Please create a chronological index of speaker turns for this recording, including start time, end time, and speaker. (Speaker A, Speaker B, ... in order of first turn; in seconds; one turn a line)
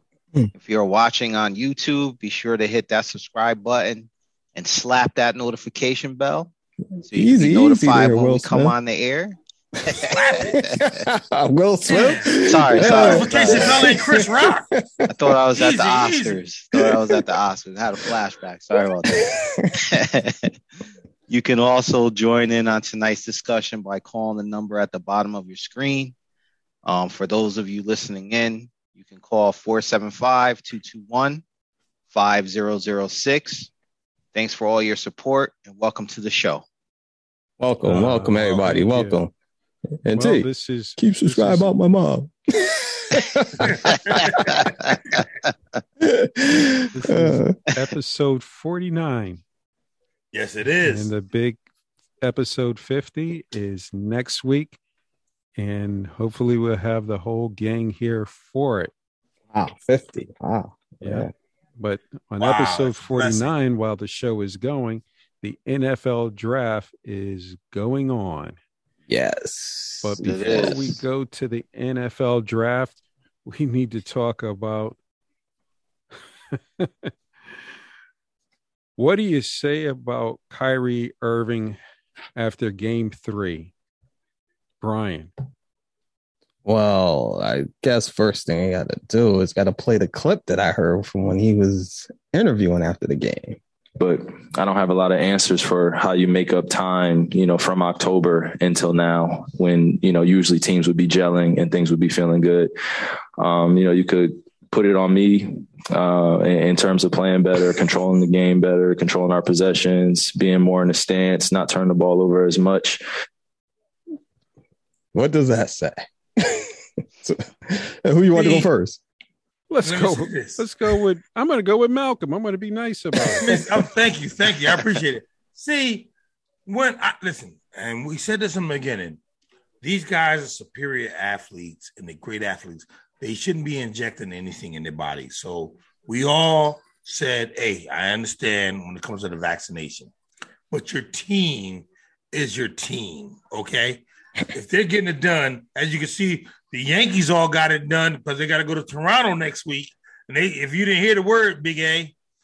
Speaker A: 0.6-6.5
Speaker B: 7.0-8.7
Speaker A: 7.1-11.1
Speaker C: 9.9-10.7
Speaker B: 10.6-15.3
Speaker C: 11.8-14.7
Speaker A: 12.3-14.1
Speaker A: 15.1-20.5
Speaker C: 15.5-16.4
Speaker B: 16.7-17.3
Speaker B: 19.1-19.8
Speaker A: 21.3-26.1
Speaker A: 26.8-31.4
Speaker A: 32.1-33.7
Speaker A: 34.3-36.6
Speaker B: 37.6-39.3
Speaker D: 37.8-39.2
Speaker B: 40.0-44.9
Speaker D: 40.1-41.7
Speaker C: 43.6-44.4
Speaker A: 44.1-45.2
Speaker B: 46.0-47.5
Speaker D: 46.9-49.4
Speaker C: 50.3-51.1
Speaker D: 50.8-51.6
Speaker D: 52.2-54.8
Speaker D: 55.5-58.9
Speaker B: 59.5-61.3
Speaker D: 61.0-68.6
Speaker C: 62.4-63.5
Speaker B: 69.1-70.9
Speaker D: 70.0-75.0
Speaker A: 70.2-70.9
Speaker D: 76.5-77.1
Speaker D: 79.0-81.8
Speaker D: 82.3-83.7
Speaker D: 84.8-85.3
Speaker B: 86.6-93.6
Speaker E: 94.0-113.0
Speaker B: 115.1-119.0
Speaker C: 118.3-118.7
Speaker D: 119.7-123.5
Speaker C: 119.8-120.6
Speaker B: 123.2-123.7
Speaker C: 123.4-126.1
Speaker C: 126.7-129.2
Speaker C: 129.8-140.1
Speaker C: 140.7-152.1